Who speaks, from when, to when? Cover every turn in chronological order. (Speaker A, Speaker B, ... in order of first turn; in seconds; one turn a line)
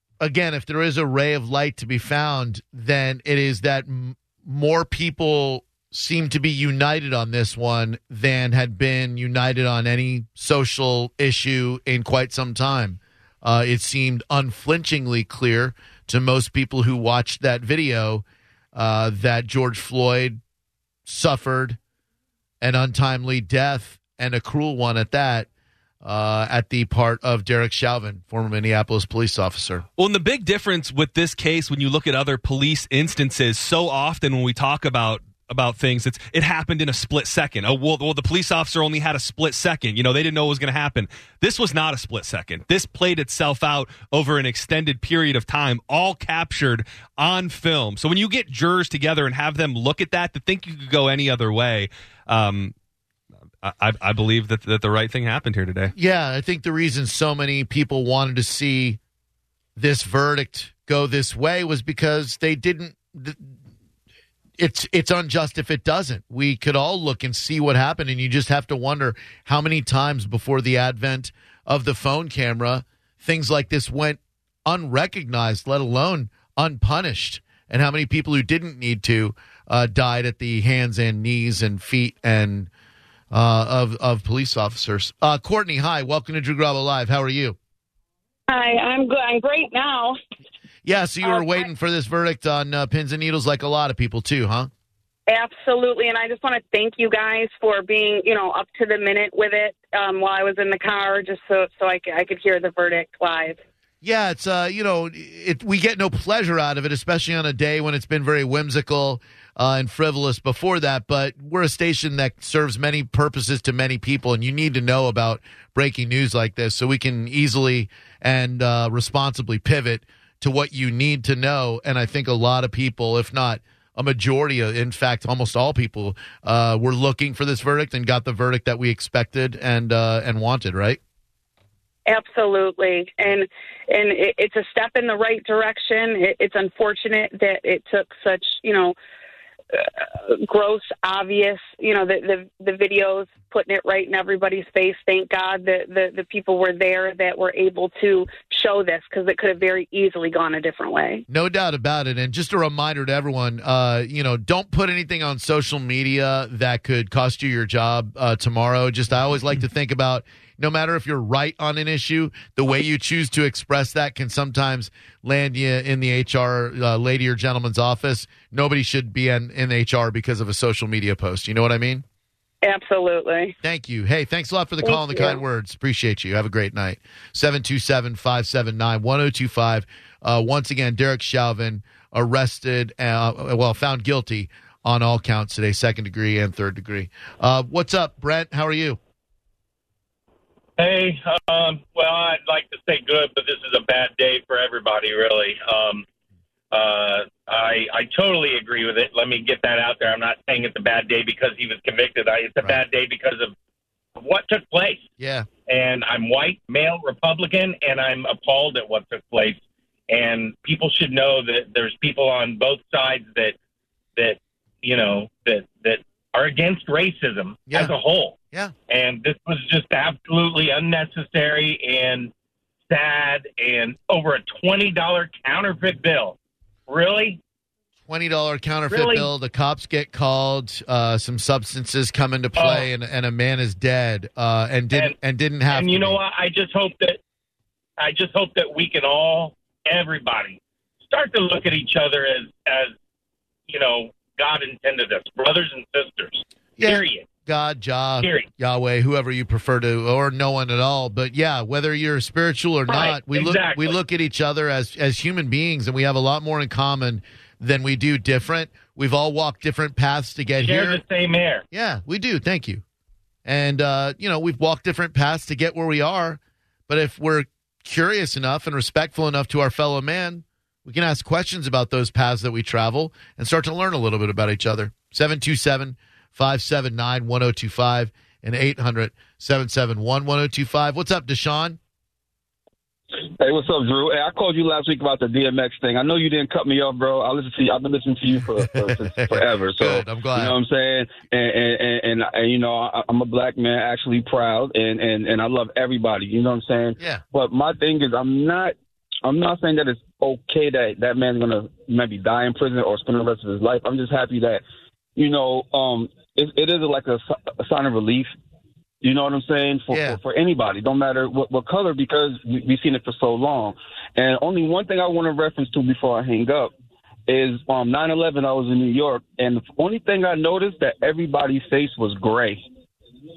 Speaker A: 0.2-20.4
Speaker A: 21.1-21.8
Speaker A: 22.6-25.5
Speaker A: 26.0-29.8
Speaker B: 30.0-52.7
Speaker B: 53.6-55.9
Speaker A: 55.9-59.0
Speaker A: 59.8-63.5
Speaker A: 64.6-82.7
Speaker A: 83.3-87.6
Speaker C: 88.5-90.2
Speaker A: 90.8-94.7
Speaker C: 91.2-91.7
Speaker C: 95.3-103.6
Speaker A: 104.0-131.0
Speaker C: 132.1-138.9
Speaker C: 139.7-151.2
Speaker A: 151.3-172.0
Speaker C: 172.6-173.5
Speaker A: 173.6-189.0
Speaker C: 174.8-175.4
Speaker D: 190.8-196.0
Speaker D: 196.7-203.5
Speaker D: 204.2-205.0
Speaker A: 205.2-205.5
Speaker D: 205.7-213.6
Speaker D: 214.2-218.3
Speaker A: 217.7-217.9
Speaker D: 218.9-222.3
Speaker D: 222.9-226.4
Speaker D: 226.9-227.4
Speaker A: 228.1-236.2
Speaker D: 228.9-229.3
Speaker D: 232.6-232.9
Speaker D: 235.7-237.2
Speaker D: 238.0-242.9
Speaker D: 243.7-247.3
Speaker A: 246.8-261.0
Speaker D: 248.2-248.5
Speaker D: 252.9-253.9
Speaker D: 260.6-261.6
Speaker A: 261.7-262.8
Speaker A: 263.4-281.8
Speaker E: 283.4-298.7
Speaker A: 288.7-290.6
Speaker E: 299.2-304.6
Speaker E: 305.1-308.3
Speaker E: 309.0-316.7
Speaker A: 309.9-310.2
Speaker E: 317.3-322.6